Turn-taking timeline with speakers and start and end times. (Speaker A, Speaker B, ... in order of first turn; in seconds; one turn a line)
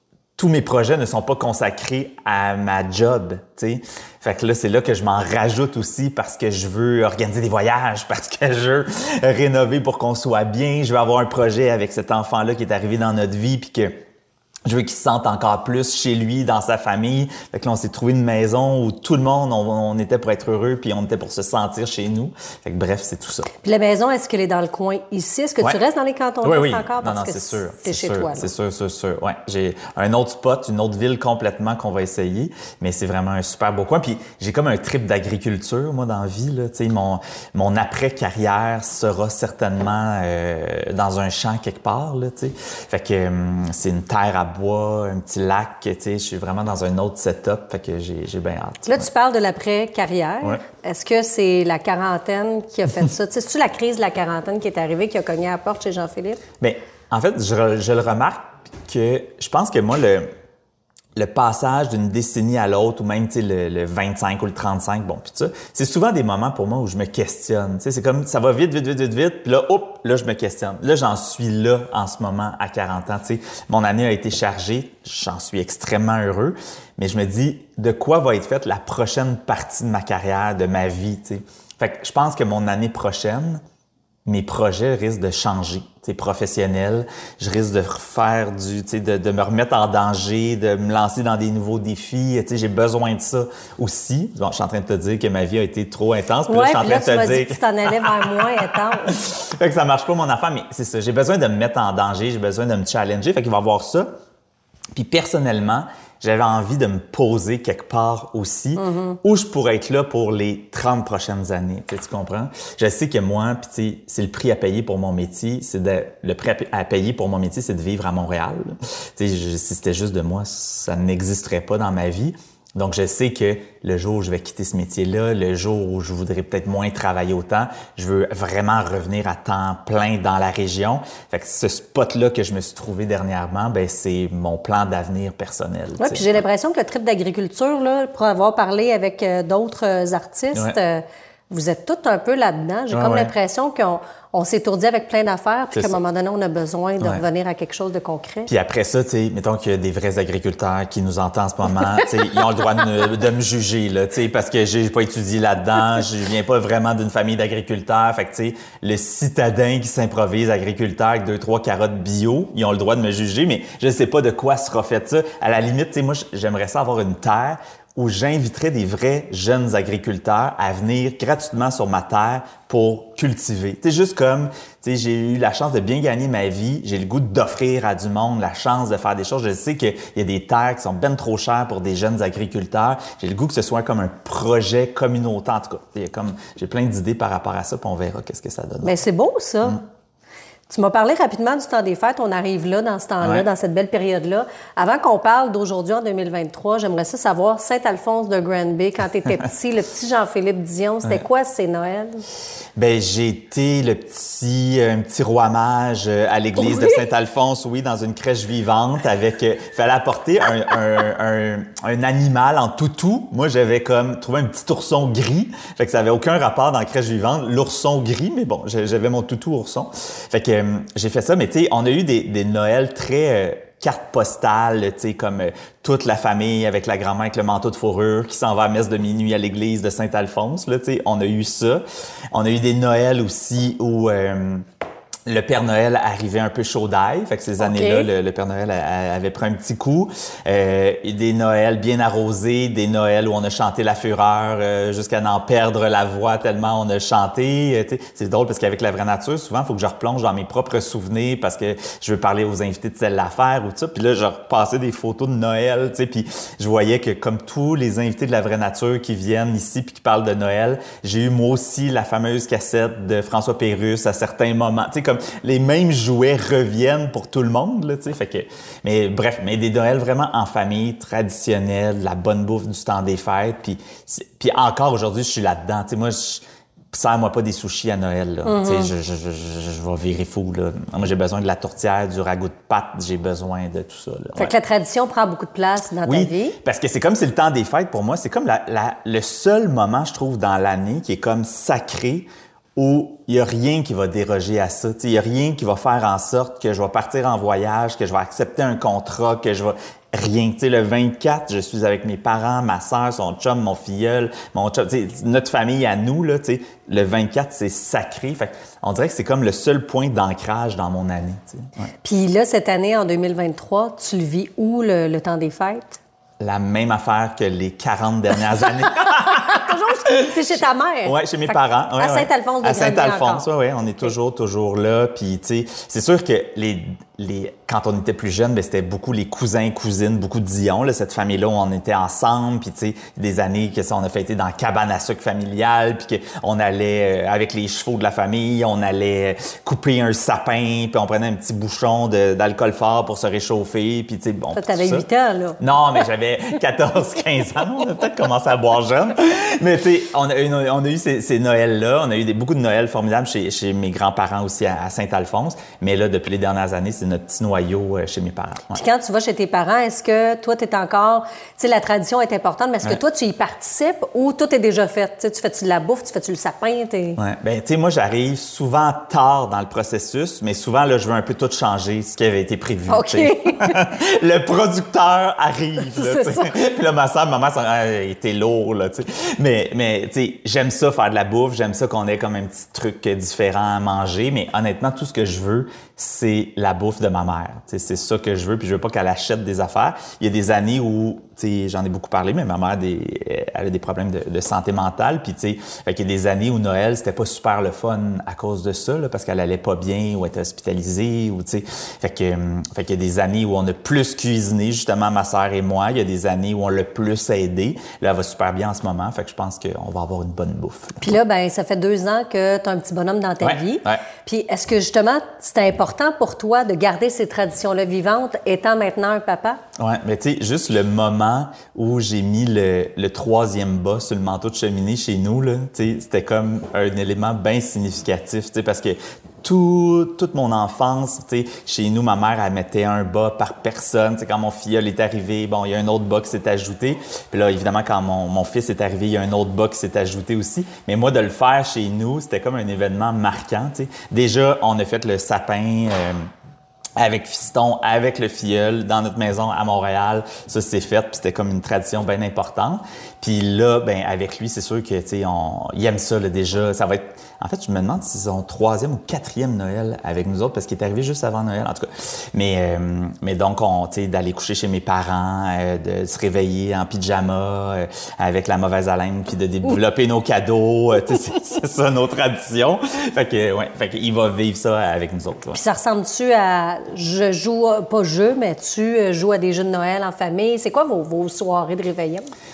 Speaker A: 0.4-14.0
Speaker A: 14.7-23.5
Speaker B: 23.6-28.5
Speaker A: 26.4-49.1
Speaker B: 48.9-56.4
Speaker A: 56.6-60.3
Speaker A: 61.2-83.6
Speaker A: 84.3-104.2
Speaker B: 96.5-99.2
Speaker A: 104.9-136.4
Speaker B: 108.8-109.2
Speaker B: 136.0-148.5
Speaker A: 142.9-143.3
Speaker A: 148.5-189.0
Speaker B: 188.8-189.8
Speaker B: 190.7-202.2
Speaker A: 202.8-234.7
Speaker A: 235.3-284.6
Speaker B: 237.6-238.1
Speaker B: 278.4-278.9
Speaker B: 284.4-286.6
Speaker A: 286.1-311.9
Speaker B: 312.0-316.0
Speaker A: 316.4-345.1
Speaker B: 318.8-323.5
Speaker B: 344.5-345.6
Speaker A: 345.6-358.8
Speaker B: 358.7-367.2
Speaker A: 367.2-411.0
Speaker B: 372.9-373.8
Speaker B: 375.9-376.5
Speaker B: 411.0-419.6
Speaker A: 413.4-414.0
Speaker A: 419.8-446.3
Speaker A: 447.0-475.6
Speaker B: 475.5-482.3